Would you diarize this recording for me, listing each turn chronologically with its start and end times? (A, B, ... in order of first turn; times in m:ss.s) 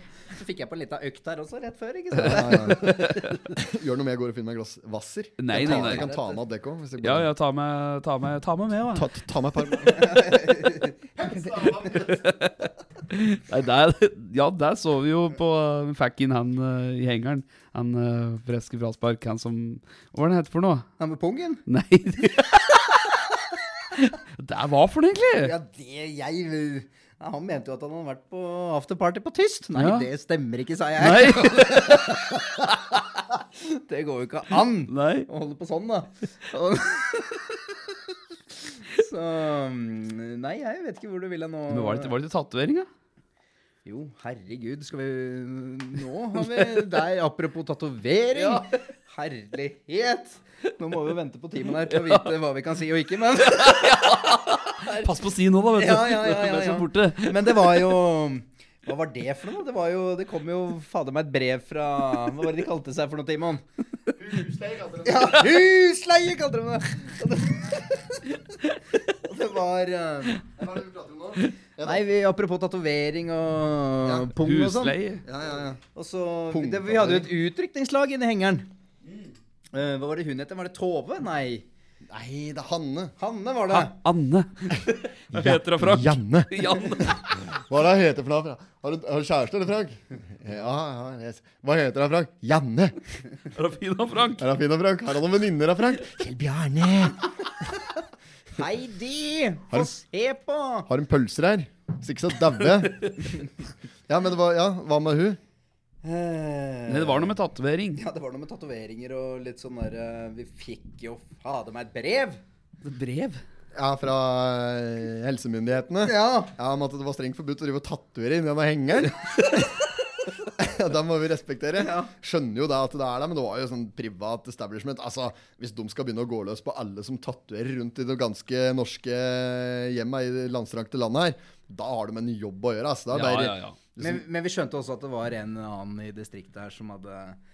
0:00.3-0:03.0 A
0:02.2-0:07.3 B
0:02.7-0:03.4 C
0:05.4-0:06.1 C
0:05.5-0:06.4 A
0:07.0-0:09.1 C
0:08.9-0:10.5 B
0:10.0-0:10.9 A
0:11.2-0:12.2 B
0:11.9-0:20.9 C
0:21.0-0:21.6 A
0:21.7-0:23.2 C
0:24.0-0:25.5 C
0:25.4-0:32.4 A
0:29.8-0:30.1 C
0:31.0-0:32.2 C
0:33.6-0:37.5 A
0:34.9-0:35.3 C
0:38.8-0:42.1 A
0:41.7-0:42.9 C
0:43.8-0:55.1 A
0:48.4-0:48.7 C
0:51.9-0:52.3 C
0:53.5-0:57.8 C
0:55.8-1:03.6 A
1:04.2-1:05.5 B
1:05.0-1:08.2 A
1:09.1-1:10.4 A
1:10.5-1:12.0 B
1:11.8-1:14.9 A
1:14.0-1:14.3 B
1:14.4-1:15.2 C
1:15.2-1:15.8 B
1:15.9-1:18.7 A
1:16.5-1:17.3 B
1:19.7-1:21.6 A
1:22.1-1:23.2 B
1:23.2-1:24.0 A
1:23.7-1:27.3 C
1:25.3-1:33.0 B
1:33.5-1:34.5 C
1:34.4-1:37.3 B
1:38.6-1:40.9 A
1:40.9-1:43.1 B
1:42.9-1:43.2 C
1:44.1-1:45.4 B
1:46.0-1:47.3 A
1:46.9-1:48.0 C
1:48.0-1:52.4 A
1:52.8-1:53.4 C
1:53.7-1:59.9 B
1:56.0-1:56.5 A
2:00.4-2:14.2 B
2:01.8-2:02.1 A
2:13.1-2:13.8 C
2:14.0-2:17.4 A